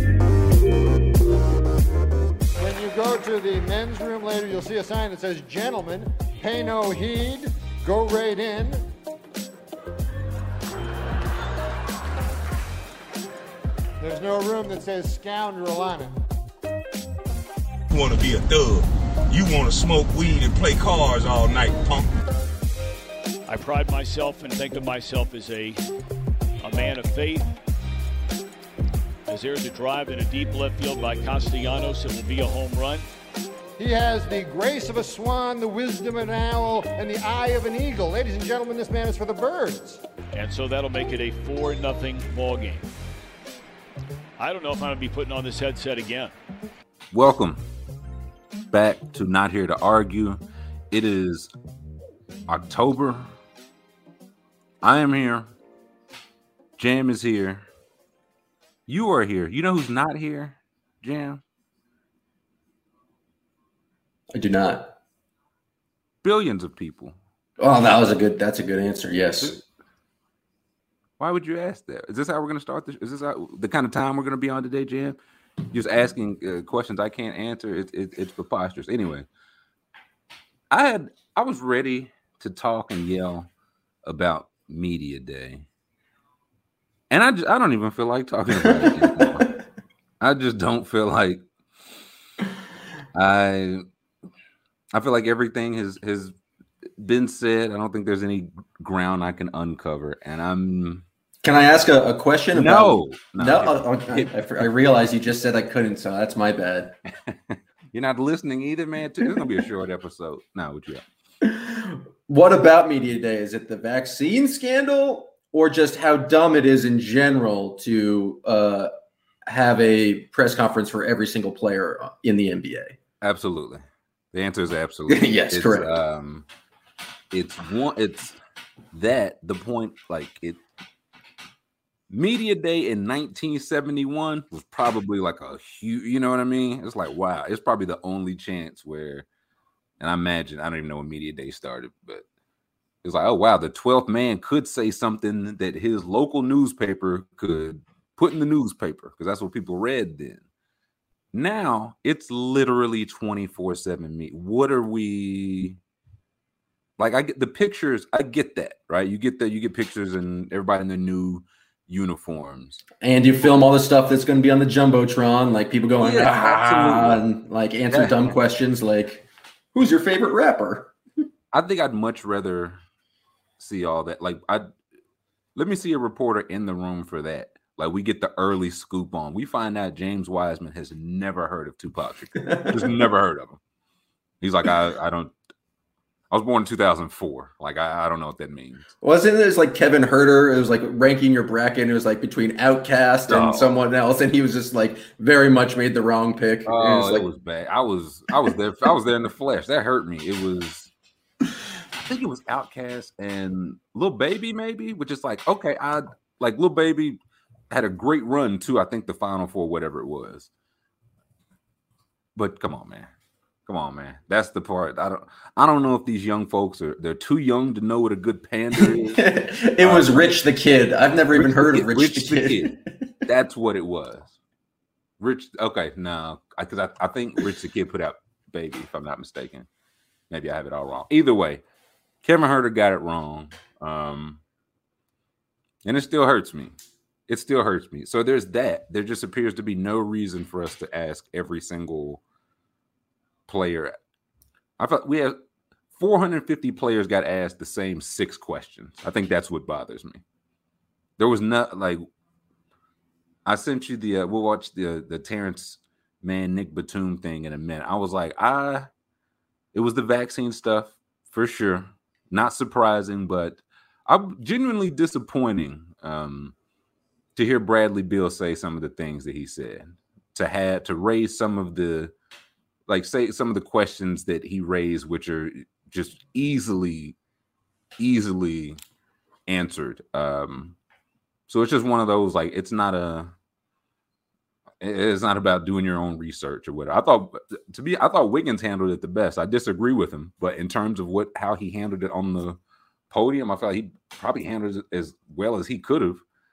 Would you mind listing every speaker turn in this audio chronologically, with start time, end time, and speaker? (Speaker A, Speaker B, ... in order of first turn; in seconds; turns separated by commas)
Speaker A: 2.6-8.8, Speaker A: 14.0-16.1, Speaker B: 17.9-22.1, Speaker C: 23.5-25.8, Speaker C: 26.6-27.5, Speaker C: 29.3-33.1, Speaker A: 33.8-40.0, Speaker C: 40.3-42.9, Speaker C: 44.4-46.3, Speaker D: 47.1-47.6, Speaker D: 48.7-50.4, Speaker D: 50.9-51.5, Speaker D: 52.5-53.3, Speaker D: 54.8-55.5, Speaker D: 56.8-57.7, Speaker D: 58.9-61.4, Speaker E: 64.3-64.9, Speaker D: 66.2-67.2, Speaker E: 67.6-69.6, Speaker D: 69.4-69.7, Speaker D: 71.2-75.2, Speaker D: 75.7-79.3, Speaker D: 80.7-83.5, Speaker D: 84.0-85.7, Speaker D: 87.1-89.5, Speaker E: 88.6-89.3, Speaker D: 90.2-91.4, Speaker D: 93.1-93.8, Speaker D: 94.9-96.3, Speaker D: 97.0-101.0, Speaker E: 101.4-107.0, Speaker D: 102.5-104.6, Speaker D: 107.3-111.0, Speaker E: 111.4-118.9, Speaker E: 119.5-123.0, Speaker D: 123.2-126.5, Speaker E: 125.1-125.9, Speaker D: 127.3-128.4, Speaker D: 128.9-130.6, Speaker D: 132.1-139.3, Speaker D: 140.0-142.2, Speaker D: 143.0-150.4, Speaker D: 151.3-155.8, Speaker D: 157.0-162.8, Speaker E: 163.0-170.9, Speaker D: 166.0-167.2, Speaker D: 167.9-168.3, Speaker D: 171.5-172.8, Speaker D: 173.6-174.7, Speaker D: 175.6-183.6, Speaker E: 182.4-182.9, Speaker D: 184.4-185.3, Speaker D: 186.3-188.9, Speaker E: 189.0-197.3, Speaker D: 193.3-193.7, Speaker D: 196.7-200.9, Speaker D: 202.0-207.2, Speaker D: 207.7-210.5, Speaker D: 212.4-213.1, Speaker D: 213.7-219.2, Speaker E: 218.8-222.8, Speaker D: 219.8-220.3, Speaker D: 221.3-224.3, Speaker D: 225.2-229.7, Speaker D: 230.3-231.6, Speaker D: 232.2-234.4, Speaker D: 235.8-236.8, Speaker D: 237.3-242.2, Speaker D: 243.5-244.0, Speaker D: 244.8-245.4, Speaker D: 246.0-250.2, Speaker D: 251.2-252.0, Speaker D: 253.4-258.9, Speaker D: 259.7-266.5, Speaker D: 267.4-272.1, Speaker D: 272.9-277.2, Speaker D: 278.0-278.8, Speaker D: 279.5-280.8, Speaker D: 281.5-283.3, Speaker D: 284.8-292.6, Speaker D: 293.1-296.2